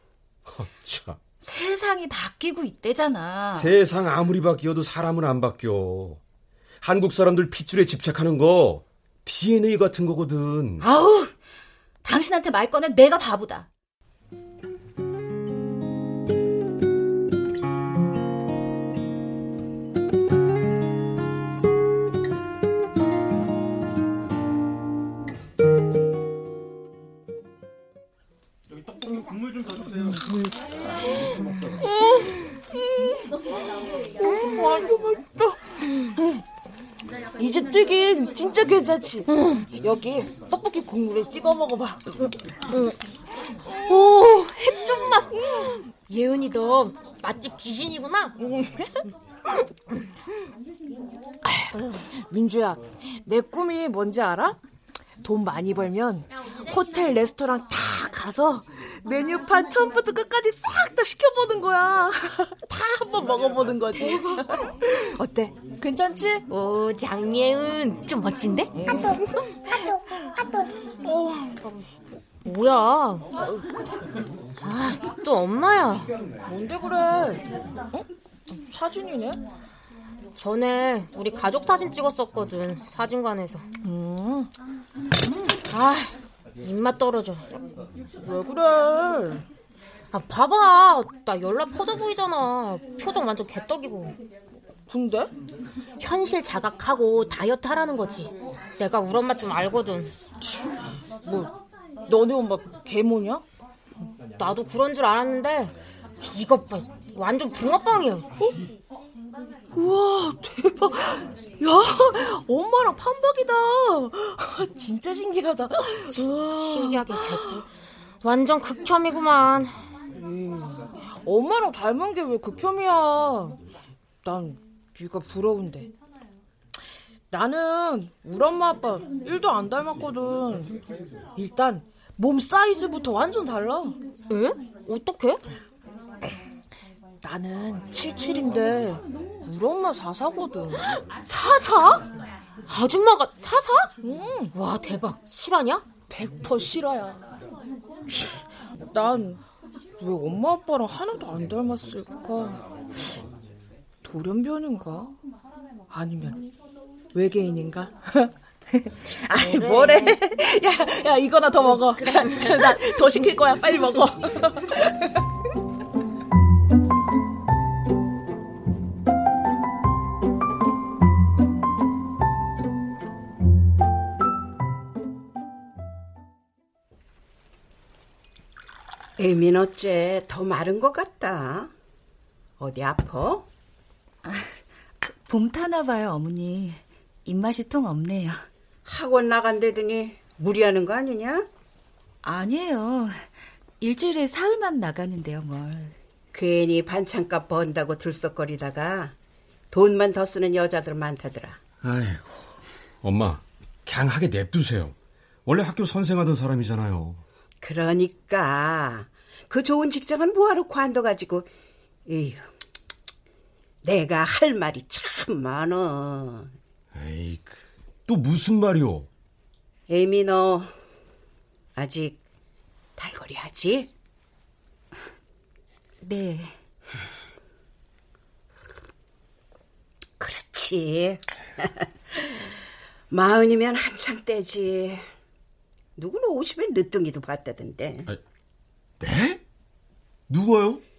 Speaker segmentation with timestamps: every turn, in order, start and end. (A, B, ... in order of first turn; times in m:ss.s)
0:00.5-0:01.2 A
0:01.4-0:03.7 B
0:03.6-0:06.2 A
0:06.8-0:10.9 A
0:10.8-0:11.3 B
0:12.0-0:13.7 B
0:31.8-0:33.3 C
0:34.2-0:35.6 C
0:36.2-0:36.4 C
0:37.4-0:42.0 C
0:42.7-0:43.0 D
0:43.9-0:44.3 C
0:43.9-0:45.4 D
0:46.1-0:48.3 D
0:48.4-0:49.0 C
0:51.5-0:54.6 C
0:55.2-1:06.4 C
1:06.5-1:08.7 D
1:08.8-1:09.2 C
1:11.0-1:11.6 C
1:12.4-1:13.4 D
1:14.6-1:16.1 D
1:16.5-1:19.4 C
1:20.4-1:23.7 D
1:23.8-1:24.5 C
1:25.6-1:27.5 D
1:28.2-1:29.4 C
1:30.1-1:34.2 D
1:34.9-1:35.3 C
1:36.0-1:40.1 D
1:40.5-1:40.7 C
1:41.2-1:41.5 C
1:42.1-1:43.4 C
1:44.4-1:45.7 D
1:46.2-1:48.3 D
1:49.7-1:57.6 C
1:56.1-1:57.7 D
1:58.2-1:59.7 D
2:00.2-2:03.6 C
2:04.2-2:05.9 C
2:07.3-2:10.7 C
2:11.4-2:14.0 C
2:14.3-2:15.4 D
2:17.2-2:20.9 C
2:21.3-2:22.0 D
2:22.7-2:23.9 D
2:24.0-2:24.5 C
2:24.5-2:25.8 D
2:26.1-2:27.2 C
2:28.9-2:29.4 C
2:30.0-2:32.6 C
2:34.0-2:35.2 C
2:35.9-2:36.4 C
2:37.1-2:44.9 C
2:39.4-2:40.2 D
2:41.9-2:42.9 D
2:59.2-3:01.7 E
3:02.6-3:03.5 E
3:04.2-3:08.5 B
3:08.9-3:11.5 E
3:12.2-3:13.2 B
3:13.8-3:16.0 B
3:16.3-3:19.2 E
3:19.7-3:21.6 E
3:21.8-3:22.4 A
3:23.0-3:25.0 A
3:25.5-3:27.2 A
3:27.6-3:31.5 E
3:32.1-3:32.5 E
3:33.8-3:36.5 E
3:36.9-3:39.1 A
3:39.9-3:40.7 E
3:41.8-3:42.2 E
3:43.0-3:43.9 E
3:46.0-3:46.6 B
3:50.2-3:52.4 E
3:53.1-3:55.0 E
3:56.0-3:58.1 E
3:59.0-3:59.4 A
4:00.3-4:00.8 A